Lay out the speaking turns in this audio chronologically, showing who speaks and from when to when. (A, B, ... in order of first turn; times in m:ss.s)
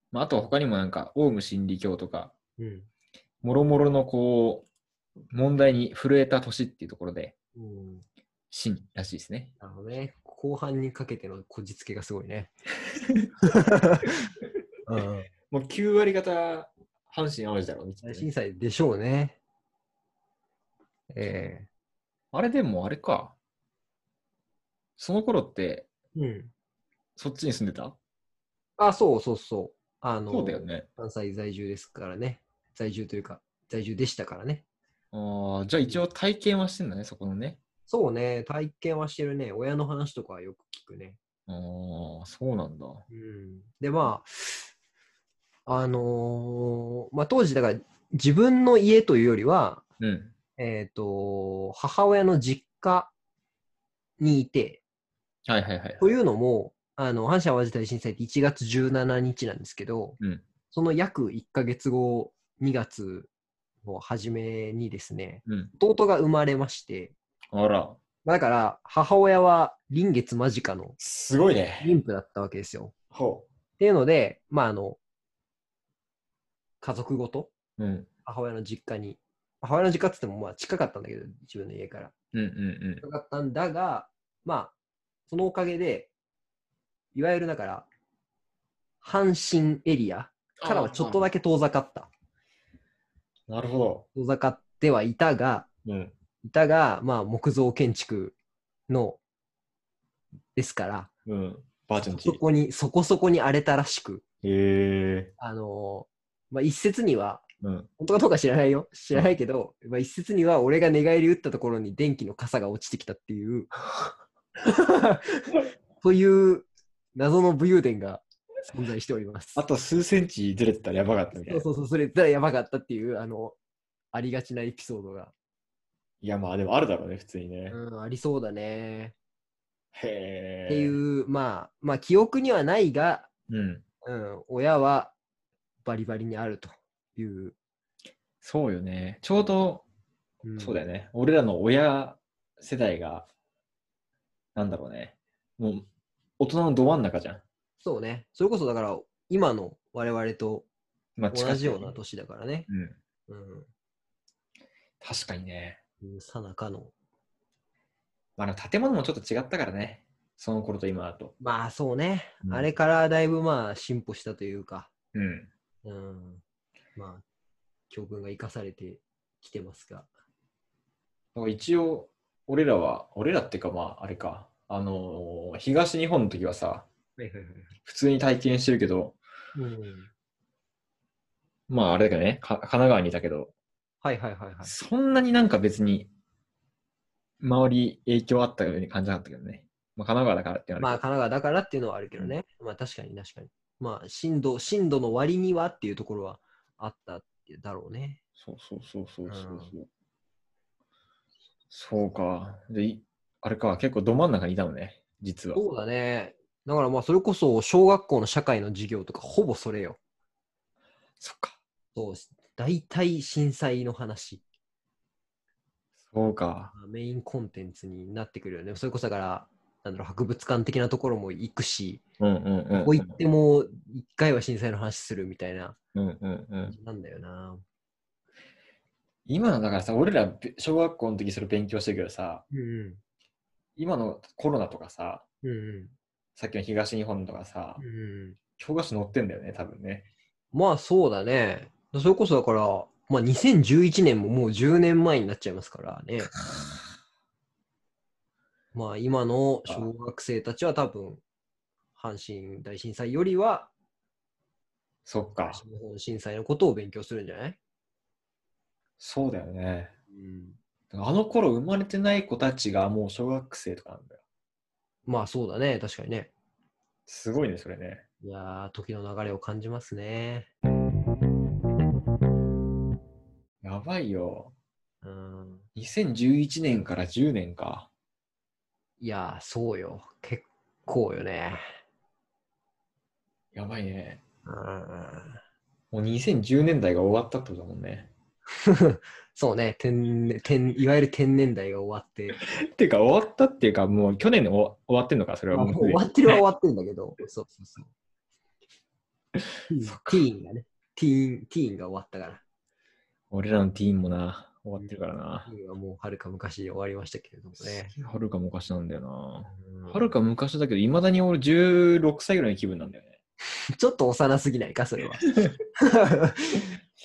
0:00.1-0:02.3 A
0:02.6-0:02.9 B
0:03.4-0:04.7 A
0:05.3-0:07.4 A
0:07.6-0:08.0 B
0:08.5-0:09.5 A
0:09.6-0:12.5 B
0:13.5-0:14.1 B
0:14.9-0:15.3 B
0:15.5-0:18.3 A
0:18.0-0:19.4 B
0:21.1-0:21.7 B
0:22.3-0:23.4 A
0:25.0-0:25.9 A
0:26.2-0:26.5 B
0:27.2-0:28.0 A
0:28.8-0:34.6 B
0:30.3-0:30.9 A
0:35.1-0:37.6 A
0:37.9-0:41.2 B
0:41.5-0:43.0 A
0:43.1-0:44.7 B
0:45.7-0:49.8 B
0:50.0-0:50.3 A
0:50.6-0:53.1 B
0:54.2-0:54.8 B
0:55.5-0:56.1 A
0:56.0-1:00.2 B
1:00.7-1:03.3 B
1:03.8-1:07.2 B
1:05.5-1:05.7 A
1:07.5-1:08.0 A
1:08.2-1:11.0 B
1:11.0-1:12.0 A
1:11.8-1:12.9 B
1:13.1-1:13.5 A
1:13.8-1:15.0 B
1:16.8-1:17.5 B
1:17.8-1:18.1 A
1:18.3-1:22.1 B
1:22.3-1:23.0 A
1:23.0-1:24.8 B
1:25.3-1:26.1 B
1:27.1-1:27.9 B
1:29.0-1:32.1 B
1:30.6-1:31.2 A
1:33.5-1:34.1 A
1:34.2-1:35.7 B
1:35.8-1:36.1 A
1:36.4-1:38.4 B
1:38.9-1:39.2 B
1:40.6-1:41.1 B
1:41.3-1:42.4 A
1:42.0-1:44.2 B
1:44.4-1:45.3 A
1:45.4-1:47.5 B
1:47.6-1:47.9 A
1:48.0-1:53.7 B
1:54.6-1:55.4 B
1:56.0-1:59.6 B
1:59.6-2:01.7 A
2:01.5-2:03.6 B
2:04.1-2:05.3 B
2:06.2-2:07.8 A
2:07.7-2:09.2 B
2:09.9-2:11.0 A
2:10.7-2:13.3 B
2:13.5-2:13.8 A
2:14.0-2:15.2 B
2:15.8-2:17.6 B
2:18.4-2:19.8 A
2:20.4-2:20.8 B
2:20.6-2:23.3 A
2:24.6-2:25.9 A
2:26.4-2:27.4 A
2:27.8-2:30.7 B
2:31.2-2:32.0 A
2:31.3-2:32.7 B
2:32.7-2:33.0 A
2:33.3-2:33.7 B
2:35.0-2:35.8 A
2:36.0-2:36.9 B
2:38.4-2:41.3 A
2:41.4-2:44.9 B
2:42.4-2:42.7 A
2:45.1-2:45.5 A
2:45.8-2:46.4 B
2:47.0-2:47.2 B
2:47.9-2:50.1 B
2:51.4-2:56.9 A
2:57.2-2:57.7 B
2:57.8-2:59.2 A
2:59.6-3:00.1 B
3:01.7-3:03.5 A
3:04.0-3:04.7 B
3:04.6-3:06.1 A
3:07.4-3:11.0 A
3:10.8-3:18.2 B
3:18.4-3:19.9 A
3:19.3-3:19.7 B
3:21.7-3:25.6 A
3:25.6-3:30.0 B
3:31.2-3:31.6 A
3:32.0-3:34.4 B
3:36.1-3:36.7 A
3:36.7-3:42.0 B
3:42.2-3:43.2 A
3:42.7-3:45.8 B
3:46.0-3:46.8 A
3:46.7-3:47.6 B
3:49.3-3:52.4 A
3:52.5-3:53.0 B
3:53.8-3:55.2 A
3:55.4-3:55.9 B
3:56.4-3:57.8 A
3:57.8-3:58.4 B
3:58.6-4:00.1 A
4:00.5-4:06.3 B
4:08.7-4:11.2 B
4:12.0-4:13.7 B
4:15.1-4:15.6 A
4:15.5-4:17.6 B
4:19.0-4:19.9 A
4:20.1-4:20.6 B
4:20.9-4:24.2 A
4:25.1-4:26.3 B
4:27.1-4:28.0 A
4:28.2-4:30.5 B
4:33.6-4:34.5 A
4:35.0-4:35.7 B
4:35.8-4:37.9 A
4:39.0-4:41.7 B
4:43.5-4:44.2 A
4:44.5-4:45.4 B
4:45.9-4:48.1 A
4:48.6-4:52.4 B
4:52.3-4:56.4 A
4:55.5-4:57.9 B
4:59.7-5:02.4 B
4:59.8-5:00.3 A
5:03.3-5:05.5 A
5:04.8-5:07.9 B
5:07.6-5:13.2 A
5:09.5-5:10.1 B
5:13.8-5:15.3 B
5:15.8-5:16.6 B